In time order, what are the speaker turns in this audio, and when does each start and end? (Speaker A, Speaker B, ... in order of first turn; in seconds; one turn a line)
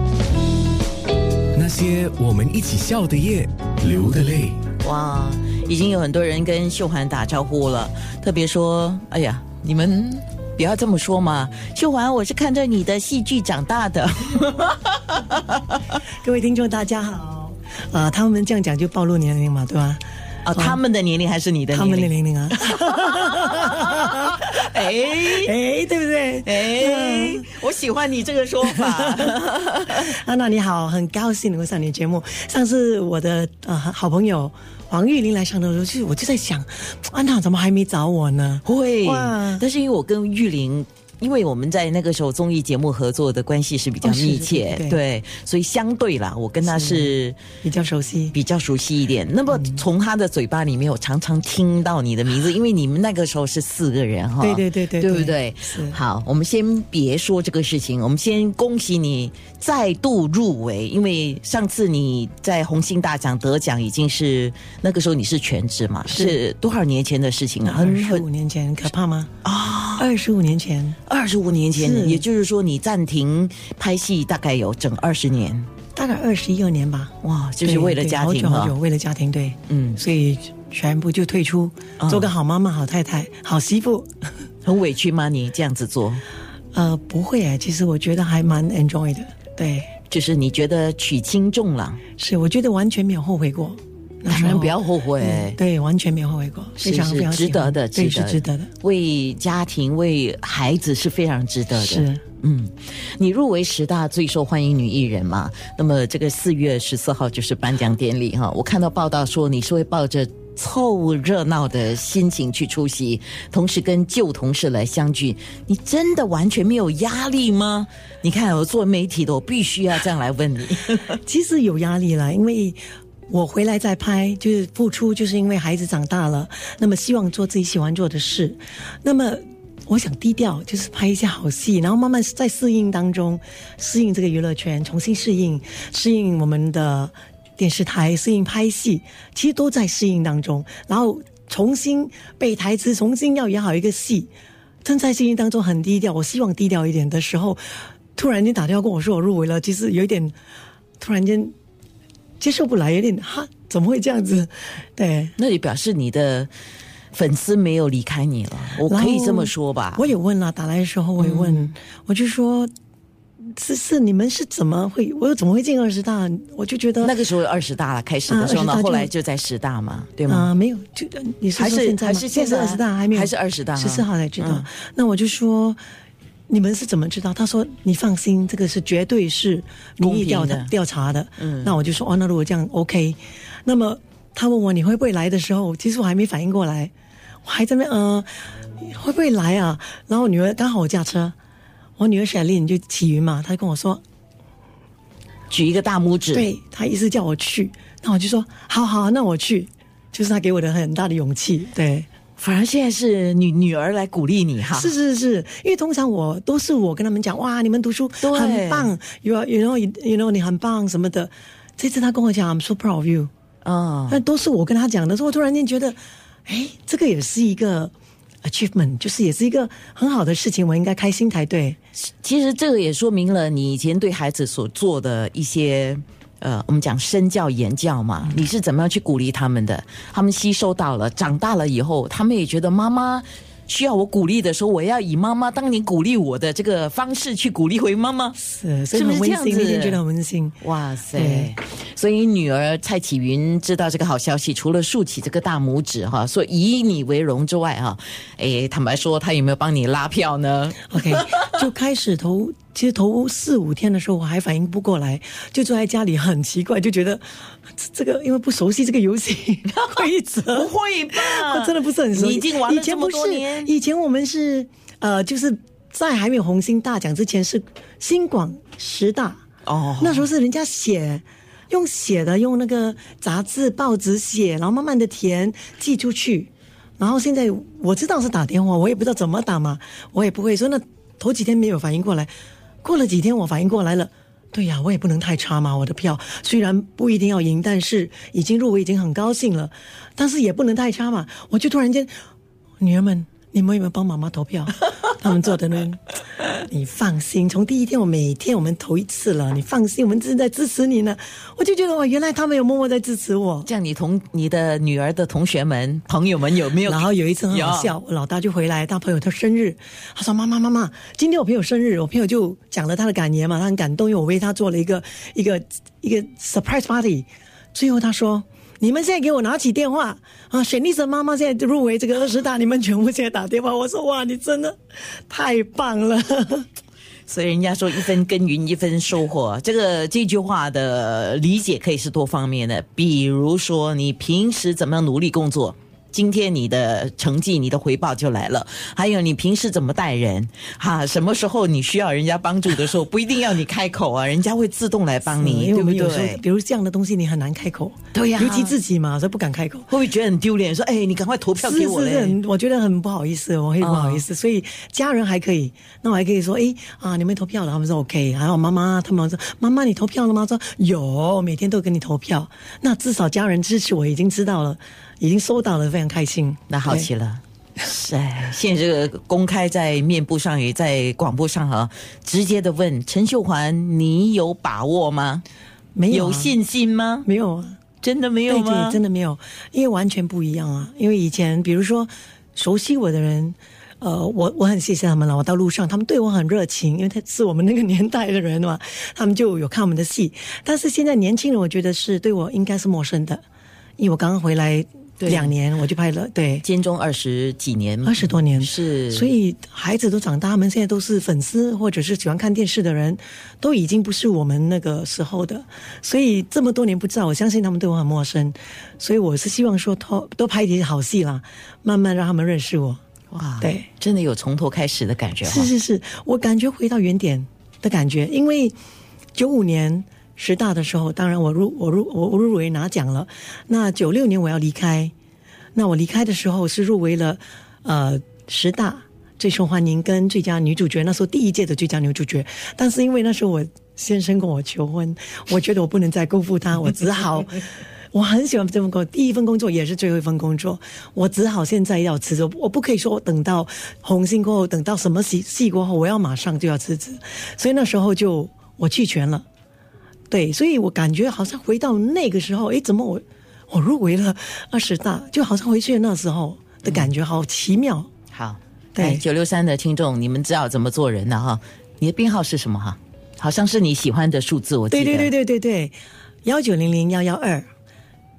Speaker A: 1.5-4.6
Speaker B: 4.8-16.0
Speaker C: 16.2-20.8
Speaker B: 20.4-25.5
Speaker C: 21.7-24.4
Speaker C: 25.2-27.5
Speaker B: 26.4-30.1
Speaker C: 28.6-29.3
Speaker C: 30.0-39.7
Speaker B: 38.6-47.4
Speaker C: 44.0-45.0
Speaker C: 46.6-48.4
Speaker B: 48.3-68.2
Speaker C: 49.5-49.8
Speaker C: 54.4-56.0
Speaker C: 66.1-66.4
Speaker C: 67.7-69.3
Speaker B: 69.4-70.1
Speaker C: 70.0-71.0
Speaker B: 71.1-75.7
Speaker C: 71.8-72.2
Speaker C: 76.0-84.1
Speaker B: 77.2-78.8
Speaker B: 79.7-80.0
Speaker B: 82.0-82.3
Speaker B: 84.7-86.2
Speaker C: 86.7-89.9
Speaker B: 90.1-92.0
Speaker C: 92.2-98.7
Speaker B: 94.3-95.6
Speaker B: 96.8-121.2
Speaker C: 101.8-102.2
Speaker C: 121.2-144.3
Speaker C: 144.8-150.3
Speaker C: 151.0-151.5
Speaker C: 152.4-155.3
Speaker B: 155.4-156.5
Speaker B: 157.1-160.1
Speaker C: 158.8-162.7
Speaker B: 161.2-161.7
Speaker C: 163.6-167.2
Speaker B: 167.0-170.5
Speaker C: 168.3-169.1
Speaker C: 170.3-175.8
Speaker B: 171.6-174.7
Speaker C: 176.5-186.9
Speaker B: 180.0-180.7
Speaker B: 181.4-181.8
Speaker C: 187.4-191.3
Speaker C: 192.0-194.0
Speaker B: 195.5-196.5
Speaker C: 196.3-202.1
Speaker B: 202.4-204.9
Speaker C: 204.7-213.3
Speaker B: 208.2-208.9
Speaker B: 213.6-214.2
Speaker C: 214.1-217.9
Speaker C: 218.4-221.8
Speaker B: 222.0-238.4
Speaker C: 238.4-240.6
Speaker B: 238.9-240.0
Speaker B: 240.6-251.6
Speaker C: 241.1-241.5
Speaker C: 250.9-257.2
Speaker C: 257.8-269.4
Speaker B: 260.5-263.7
Speaker B: 269.7-270.3
Speaker C: 270.0-282.3
Speaker C: 282.8-292.1
Speaker C: 292.8-303.7
Speaker B: 303.7-308.0
Speaker C: 306.8-324.8
Speaker C: 325.3-326.7
Speaker B: 327.3-346.4
Speaker C: 345.3-349.9
Speaker B: 348.1-348.8
Speaker B: 349.9-352.4
Speaker C: 351.6-367.1
Speaker B: 353.8-354.2
Speaker B: 366.7-375.4
Speaker C: 375.9-376.6
Speaker B: 376.1-377.3
Speaker C: 377.2-377.8
Speaker B: 378.0-379.0
Speaker C: 378.5-393.4
Speaker C: 394.0-396.6
Speaker B: 395.2-395.6
Speaker B: 396.6-399.3
Speaker C: 398.0-413.0
Speaker B: 413.3-415.7
Speaker C: 413.6-413.9
Speaker C: 415.4-418.8
Speaker C: 419.4-425.1
Speaker C: 425.8-449.4
Speaker C: 450.3-458.1
Speaker B: 456.8-457.1
Speaker B: 458.3-465.3
Speaker C: 459.0-459.2
Speaker C: 464.9-467.7